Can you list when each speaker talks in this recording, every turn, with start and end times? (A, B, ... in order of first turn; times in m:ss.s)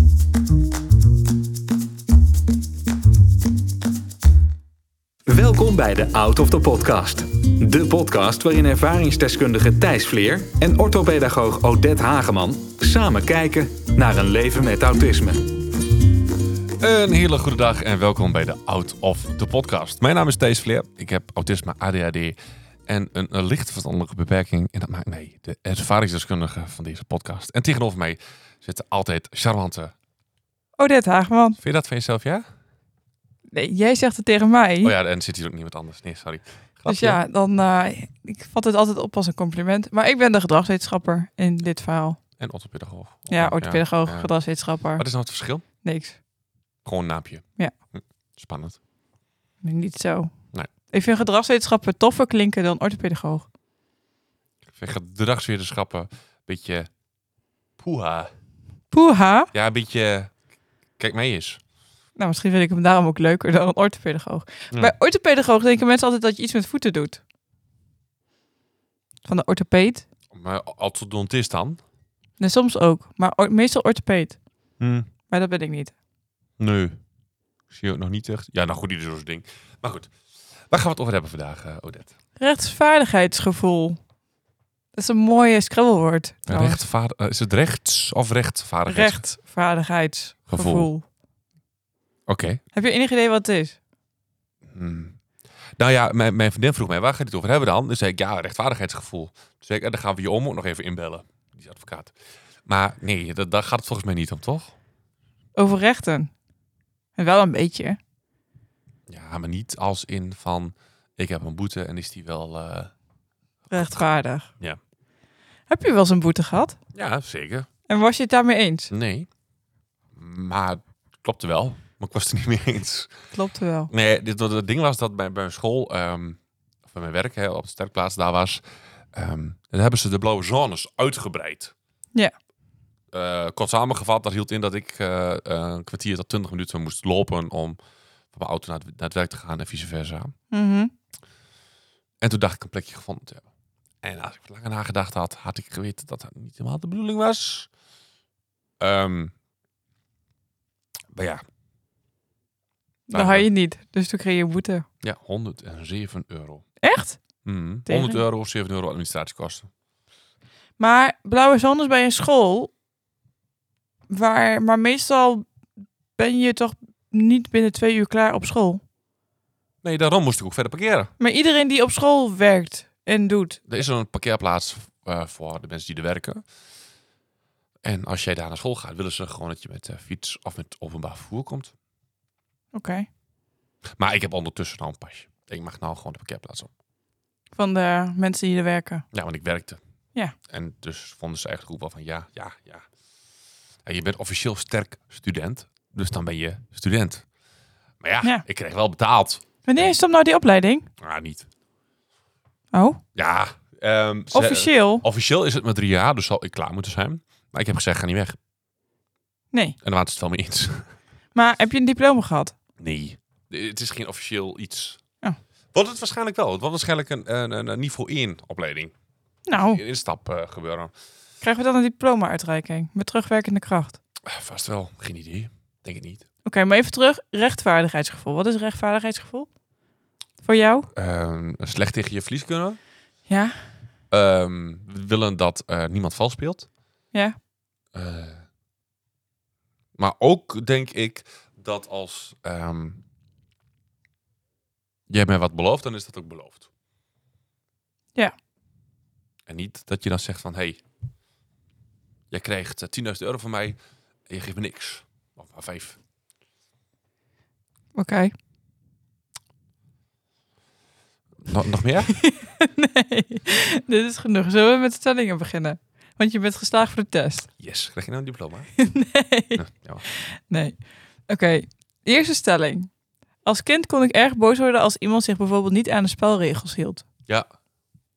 0:05.3-0:15.5 A
0:16.8-0:22.4 B
0:22.9-0:29.9 B
0:30.8-0:31.6 C
0:31.6-0:32.5 B
0:33.5-0:34.9 C
0:34.8-0:37.2 B
0:36.9-0:42.2 C
0:42.4-0:44.3 B
0:43.3-0:45.0 C
0:45.0-0:45.6 B
0:45.8-0:46.2 C
0:46.8-0:48.8 B
0:49.6-0:50.3 C
0:50.9-0:53.5 C
0:54.8-0:56.9 B
0:57.8-0:58.3 B
0:58.9-0:59.5 C
0:59.5-1:00.3 B
1:01.0-1:01.6 B
1:02.2-1:07.2 C
1:09.2-1:10.0 C
1:10.3-1:11.8 B
1:12.4-1:14.4 C
1:14.8-1:15.1 B
1:15.3-1:15.9 C
1:16.6-1:17.0 B
1:17.7-1:20.1 B
1:20.7-1:22.1 B
1:22.4-1:24.0 C
1:24.9-1:26.8 C
1:26.5-1:29.2 B
1:28.9-1:31.0 C
1:30.5-1:30.9 B
1:32.3-1:32.6 B
1:32.7-1:33.8 C
1:34.7-1:35.2 B
1:35.8-1:42.1 B
1:42.7-1:44.7 B
1:45.6-1:46.3 C
1:47.2-1:48.0 C
1:49.1-1:52.9 B
1:53.7-1:54.0 B
1:53.7-1:54.5 C
1:55.7-1:56.8 C
1:56.9-1:57.7 B
1:57.9-1:58.9 C
1:58.9-1:59.3 B
2:00.2-2:03.1 B
2:03.3-2:03.9 C
2:03.9-2:08.6 B
2:09.1-2:11.7 B
2:13.1-2:17.8 B
2:18.3-2:20.4 B
2:20.5-2:20.9 C
2:22.2-2:23.4 B
2:24.0-2:27.7 B
2:28.8-2:29.3 B
2:31.1-2:31.4 B
2:33.1-2:34.8 C
2:33.1-2:33.5 B
2:35.0-2:36.6 B
2:36.8-2:37.2 C
2:37.4-2:39.7 B
2:37.9-2:38.2 C
2:40.8-2:42.7 C
2:44.1-2:45.5 C
2:46.2-2:48.8 C
2:49.8-2:51.1 B
2:51.2-2:53.6 C
2:53.7-2:56.4 B
2:57.8-3:01.7 B
3:02.7-3:03.1 C
3:04.0-3:06.7 B
3:07.6-3:09.0 C
3:09.1-3:09.8 B
3:10.5-3:12.9 B
3:13.8-3:17.2 B
3:18.0-3:19.9 B
3:19.6-3:20.9 C
3:21.0-3:21.5 B
3:22.7-3:23.0 C
3:23.2-3:28.4 B
3:24.3-3:25.0 C
3:29.5-3:29.8 C
3:29.8-3:30.9 B
3:31.4-3:32.6 C
3:32.8-3:35.0 B
3:35.7-3:38.9 B
3:39.5-3:39.8 C
3:39.6-3:40.9 B
3:41.4-3:44.0 C
3:44.3-3:46.2 B
3:46.4-3:49.5 C
3:50.4-3:50.9 C
3:50.9-3:52.8 B
3:53.3-3:53.6 C
3:54.1-3:56.7 B
3:57.9-3:58.4 B
4:00.0-4:03.0 B
4:05.1-4:06.7 B
4:09.5-4:10.8 B
4:12.3-4:16.0 B
4:17.9-4:18.3 C
4:21.4-4:22.2 B
4:22.1-4:27.5 C
4:27.6-4:28.7 B
4:28.8-4:32.9 C
4:29.6-4:30.0 B
4:33.4-4:37.0 C